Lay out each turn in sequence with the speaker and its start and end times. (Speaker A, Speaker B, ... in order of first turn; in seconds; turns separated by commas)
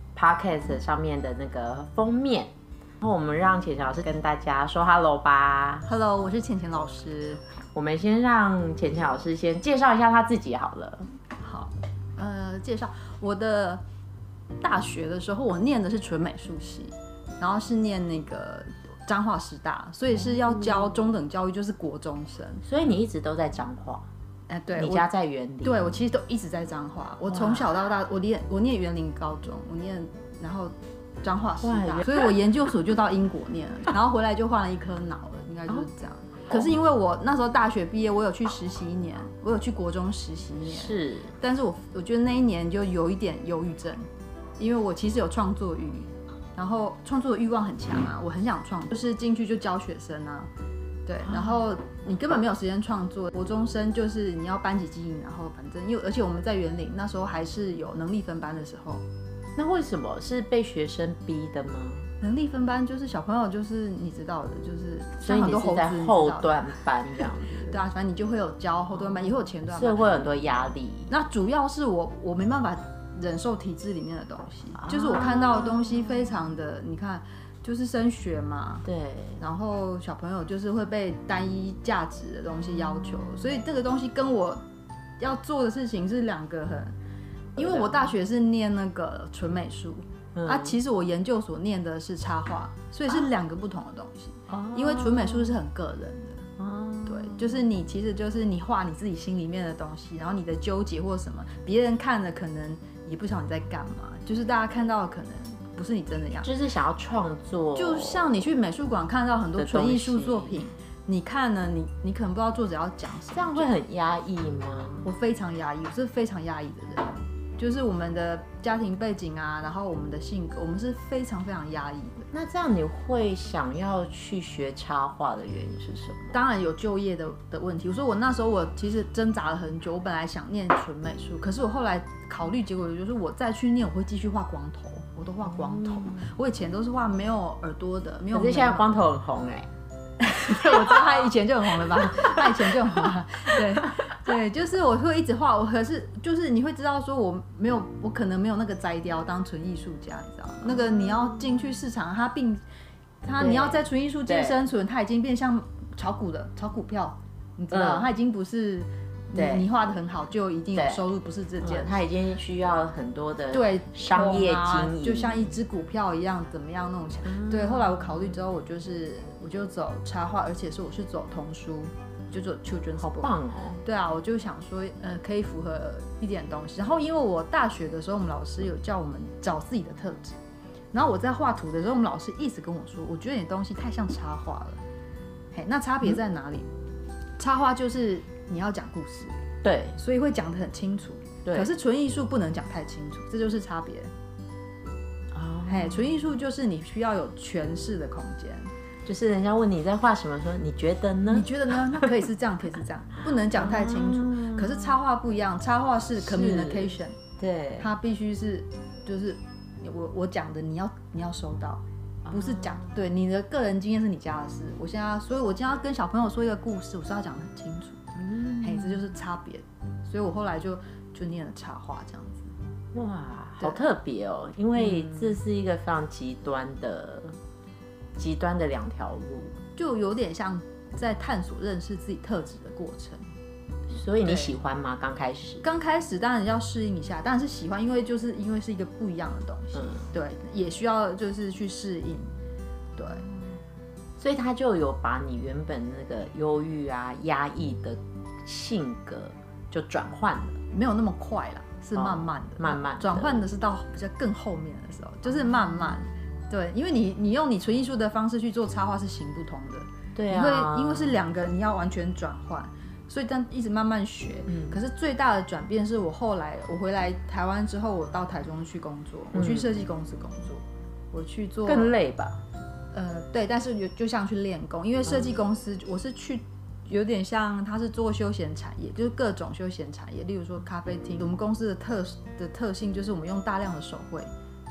Speaker A: 0.1-5.9, Speaker B: 5.8-7.4, Speaker A: 7.7-11.1, Speaker B: 11.4-13.8, Speaker B: 14.6-22.6, Speaker A: 20.3-20.9, Speaker A: 22.6-24.1, Speaker B: 24.5-25.1, Speaker A: 24.7-25.9, Speaker B: 25.6-44.0, Speaker A: 27.3-27.7, Speaker A: 31.6-32.3, Speaker A: 40.7-41.3, Speaker B: 44.6-50.5, Speaker B: 51.0-59.0, Speaker A: 51.2-51.6, Speaker A: 59.5-62.1, Speaker B: 62.2-66.5, Speaker A: 65.2-67.8, Speaker B: 67.7-70.0, Speaker A: 69.1-71.1, Speaker B: 71.1-78.8, Speaker A: 74.8-76.1, Speaker A: 78.8-79.4, Speaker B: 79.4-84.6, Speaker B: 85.2-86.9, Speaker B: 87.5-96.4, Speaker A: 87.6-88.0, Speaker A: 90.3-90.8, Speaker A: 94.5-95.5, Speaker A: 96.6-97.6, Speaker B: 97.0-106.5, Speaker A: 106.4-108.4, Speaker B: 107.7-113.7, Speaker A: 109.6-110.6, Speaker A: 113.3-115.1, Speaker B: 115.0-122.3, Speaker A: 122.3-126.3, Speaker B: 126.3-138.9, Speaker A: 135.4-136.3, Speaker A: 138.3-139.7, Speaker B: 140.2-152.6, Speaker A: 140.5-141.3, Speaker A: 141.8-142.9, Speaker A: 150.7-151.3, Speaker B: 153.2-162.0, Speaker A: 153.4-154.6, Speaker A: 157.7-158.1, Speaker A: 159.3-159.7, Speaker A: 160.7-161.0, Speaker A: 161.6-165.5, Speaker B: 163.5-180.4, Speaker A: 167.3-168.3, Speaker A: 173.0-173.8, Speaker B: 180.9-184.8, Speaker B: 185.5-186.7, Speaker B: 187.4-189.3, Speaker A: 189.6-190.0, Speaker B: 189.9-194.1, Speaker A: 195.3-196.0, Speaker B: 195.7-198.7, Speaker A: 199.0-202.1, Speaker B: 201.3-207.1, Speaker A: 203.5-204.9, Speaker A: 206.2-207.9, Speaker B: 207.8-222.5, Speaker A: 212.2-212.9, Speaker A: 218.2-219.0, Speaker A: 222.9-227.4, Speaker B: 224.8-225.2, Speaker A: 228.2-229.6, Speaker B: 229.8-233.3, Speaker A: 233.9-235.6, Speaker B: 234.2-234.5, Speaker B: 235.6-242.3, Speaker A: 239.7-240.1, Speaker B: 242.9-243.3, Speaker A: 244.2-250.6, Speaker B: 250.7-271.9, Speaker A: 251.9-253.4, Speaker A: 260.1-261.1, Speaker A: 264.5-264.8, Speaker A: 269.3-269.7, Speaker A: 271.6-272.4, Speaker B: 272.9-284.3